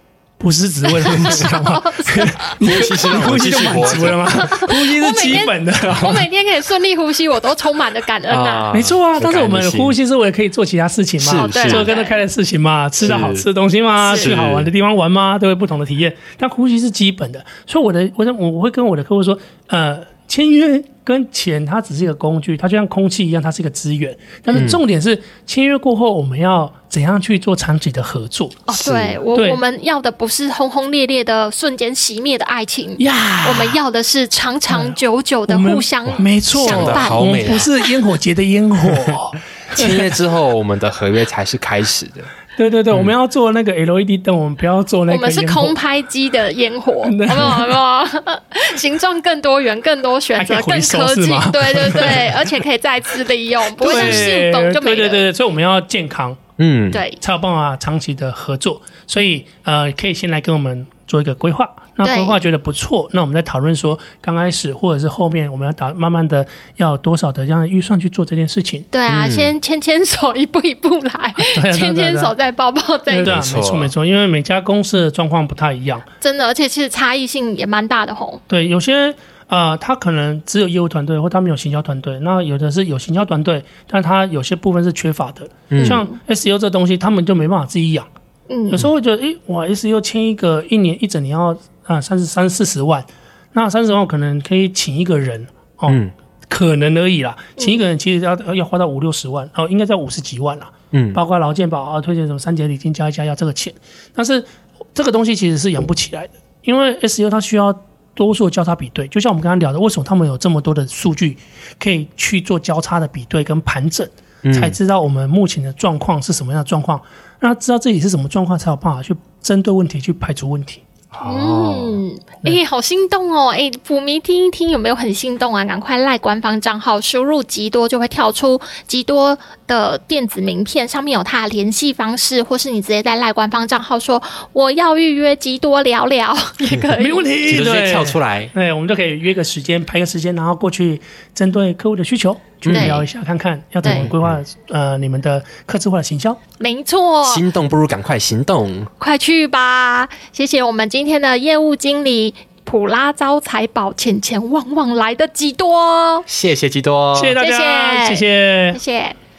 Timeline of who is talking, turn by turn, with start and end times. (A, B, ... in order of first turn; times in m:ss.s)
0:00.4-0:06.2 A
0:00.9-0:03.0 B
0:02.6-0:04.6 C
0:04.3-0:08.7 B
0:08.3-0:10.0 C
0:08.7-0:28.6 A
0:11.2-0:11.9 C
0:11.4-0:12.2 B
0:13.0-0:13.5 C
0:14.0-0:14.3 B
0:14.1-0:14.7 C
0:24.5-0:24.8 C
0:28.7-0:37.9 B
0:28.7-0:29.2 C
0:29.3-0:29.6 A
0:33.0-0:33.8 A
0:34.7-0:40.1 A
0:36.0-0:37.7 C
0:39.7-0:42.3 C
0:42.6-0:45.8 A
0:45.1-0:55.2 B
0:47.0-0:47.7 A
0:50.4-0:52.5 A
0:53.8-0:56.4 A
0:53.9-0:54.3 C
0:56.6-0:57.0 C
0:56.9-0:57.2 B
0:57.2-1:08.9 A
1:02.0-1:02.4 B
1:08.9-1:13.4 B
1:09.1-1:09.5 C
1:11.4-1:12.3 A
1:13.1-1:16.0 A
1:13.2-1:13.9 C
1:16.2-1:18.4 B
1:18.5-1:28.1 A
1:25.7-1:26.0 C
1:25.7-1:26.2 B
1:28.5-1:28.8 B
1:28.7-2:00.8 A
1:35.9-1:36.1 C
1:40.9-1:41.2 C
1:54.4-1:54.8 C
2:01.1-2:02.0 C
2:01.2-2:17.3 B
2:17.0-2:26.4 A
2:17.4-2:18.5 C
2:22.6-2:23.0 C
2:22.7-2:23.1 B
2:23.8-2:24.1 B
2:23.8-2:24.4 C
2:26.6-2:27.4 B
2:27.2-2:28.9 C
2:29.0-2:36.2 B
2:36.3-2:37.4 C
2:37.1-2:38.8 A
2:37.4-2:39.2 B